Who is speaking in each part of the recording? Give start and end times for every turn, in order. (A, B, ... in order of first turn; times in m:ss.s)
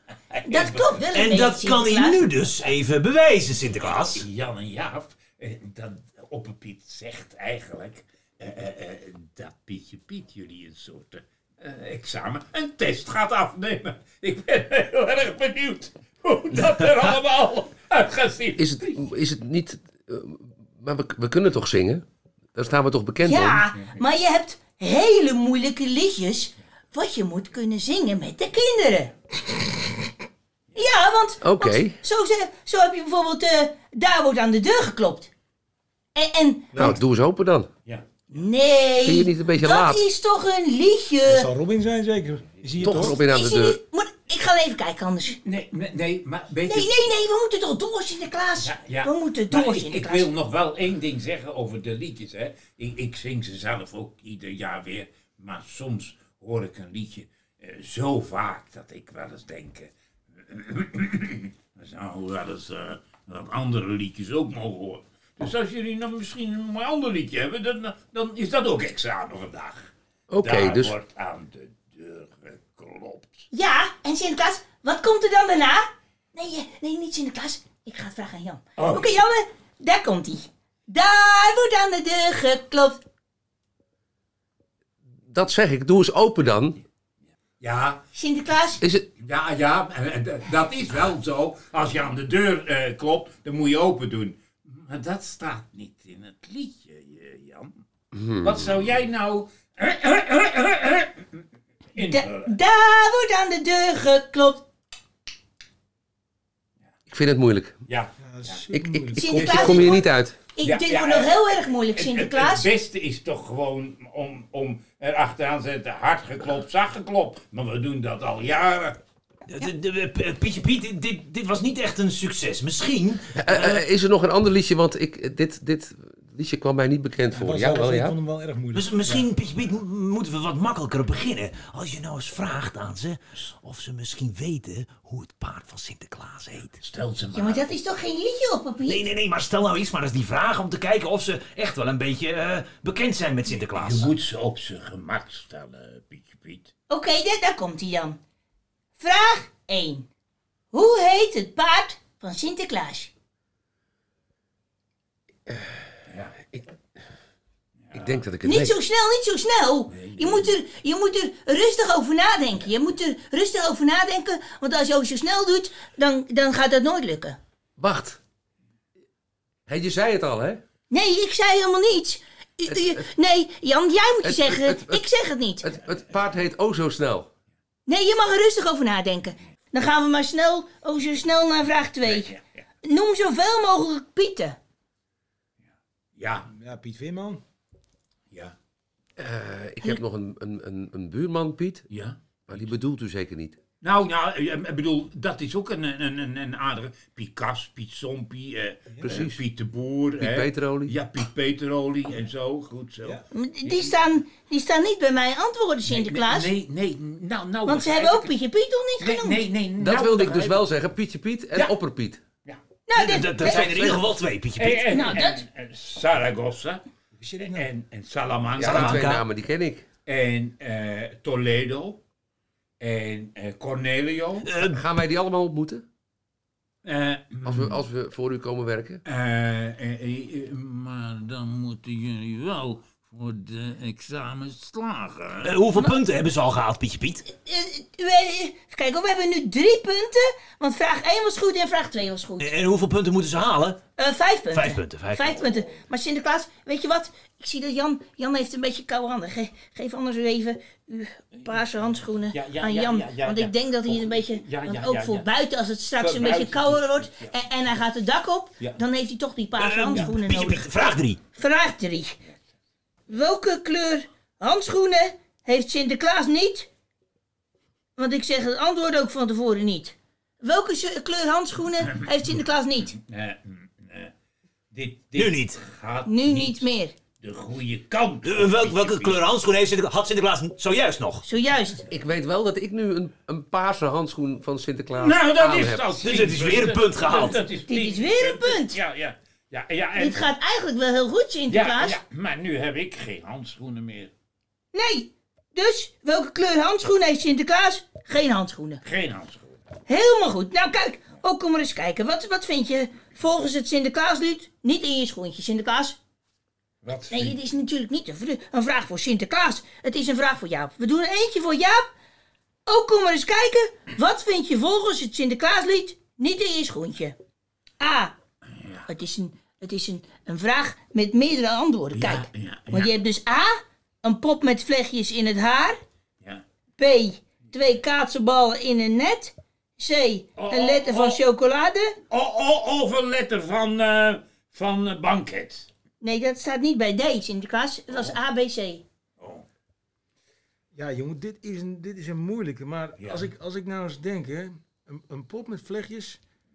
0:00.3-0:01.1 A
0:00.4-0:02.3 B
0:01.1-0:04.2 C
0:03.8-0:18.7 A
0:18.6-0:23.6 D
0:23.2-0:29.7 B
0:30.8-0:35.3 B
0:31.4-0:32.0 D
0:36.1-0:37.0 B
0:36.7-0:37.7 D
0:38.3-0:41.5 B
0:39.0-0:40.0 D
0:41.2-0:43.2 E
0:42.8-0:43.8 D
0:43.2-0:45.4 B
0:45.4-0:47.0 A
0:46.7-0:50.3 B
0:48.6-0:59.9 A
1:00.4-1:13.5 A
1:10.3-1:10.9 D
1:13.5-1:23.0 B
1:18.8-1:19.2 A
1:25.3-1:26.8 D
1:27.6-1:28.0 A
1:28.1-1:28.8 B
1:28.8-1:29.1 D
1:29.2-1:37.7 A
1:38.1-1:38.7 D
1:38.4-1:41.2 A
1:41.9-1:42.5 A
1:42.0-1:44.6 B
1:47.1-1:47.8 D
1:47.8-1:48.6 A
1:48.2-1:50.0 E
1:48.7-1:50.4 D
1:49.2-1:52.7 B
1:49.3-1:49.8 A
1:50.6-1:59.0 A
1:59.5-2:03.8 C
2:03.4-2:08.2 D
2:07.3-2:09.3 E
2:08.7-2:16.8 C
2:16.8-2:17.7 A
2:17.3-2:19.0 B
2:18.8-2:24.1 C
2:23.7-2:26.7 A
2:26.9-2:28.2 B
2:29.0-2:30.1 B
2:30.7-2:33.1 B
2:36.1-2:36.6 A
2:37.8-2:38.2 A
2:37.9-2:38.7 D
2:38.4-2:47.4 B
2:39.9-2:40.5 A
2:47.8-2:48.2 D
2:49.7-2:50.6 D
2:50.9-2:55.7 B
2:54.2-2:55.0 D
2:55.6-2:57.3 D
2:57.8-3:04.6 B
3:02.0-3:02.4 A
3:06.2-3:06.5 A
3:06.5-3:07.4 E
3:09.2-3:11.8 D
3:11.9-3:12.7 A
3:12.5-3:13.6 D
3:13.8-3:24.0 A
3:18.9-3:19.2 E
3:19.0-3:19.4 D
3:20.2-3:21.0 D
3:23.3-3:26.5 B
3:25.8-3:28.4 A
3:27.6-3:29.4 B
3:29.0-3:30.7 A
3:29.8-3:32.2 D
3:32.9-3:33.9 B
3:32.9-3:35.1 C
3:33.4-3:34.0 D
3:34.6-3:36.8 A
3:34.9-3:35.4 B
3:37.2-3:37.7 E
3:37.4-3:39.1 A
3:38.6-3:39.8 D
3:38.7-3:39.2 C
3:40.0-3:42.0 A
3:42.8-3:44.5 A
3:44.4-3:44.8 C
3:44.7-3:45.8 D
3:46.8-3:47.8 A
3:47.4-3:49.0 D
3:49.0-3:55.6 A
3:55.4-3:57.2 C
3:57.3-4:02.5 B
4:02.4-4:03.8 C
4:04.0-4:20.7 B
4:04.5-4:05.4 C
4:12.3-4:15.3 A
4:16.0-4:17.3 A
4:19.6-4:21.2 C
4:19.9-4:20.2 A
4:21.3-4:22.2 B
4:23.1-4:26.7 B
4:28.0-4:33.0 B
4:33.1-4:34.1 A
4:34.7-4:39.2 A
4:35.1-4:35.6 C
4:36.0-4:36.9 B
4:38.2-4:41.2 C
4:41.2-4:41.9 B
4:41.9-4:45.8 D
4:44.9-4:50.3 A
4:46.0-4:47.4 C
4:47.4-4:48.8 B
4:50.0-4:52.0 B
4:51.5-4:54.1 A
4:54.7-4:58.8 B
4:58.8-4:59.6 A
4:59.9-5:06.0 B
5:06.8-5:07.4 A
5:07.1-5:11.8 B
5:12.7-5:17.2 B
5:17.8-5:18.2 B
5:18.9-5:25.8 B
5:21.9-5:22.9 A
5:26.8-5:31.9 B
5:30.4-5:31.2 A
5:32.1-5:35.7 A
5:36.0-5:38.8 B
5:37.9-5:38.2 A
5:39.2-5:39.4 A
5:40.7-5:46.2 E
5:43.0-5:43.3 A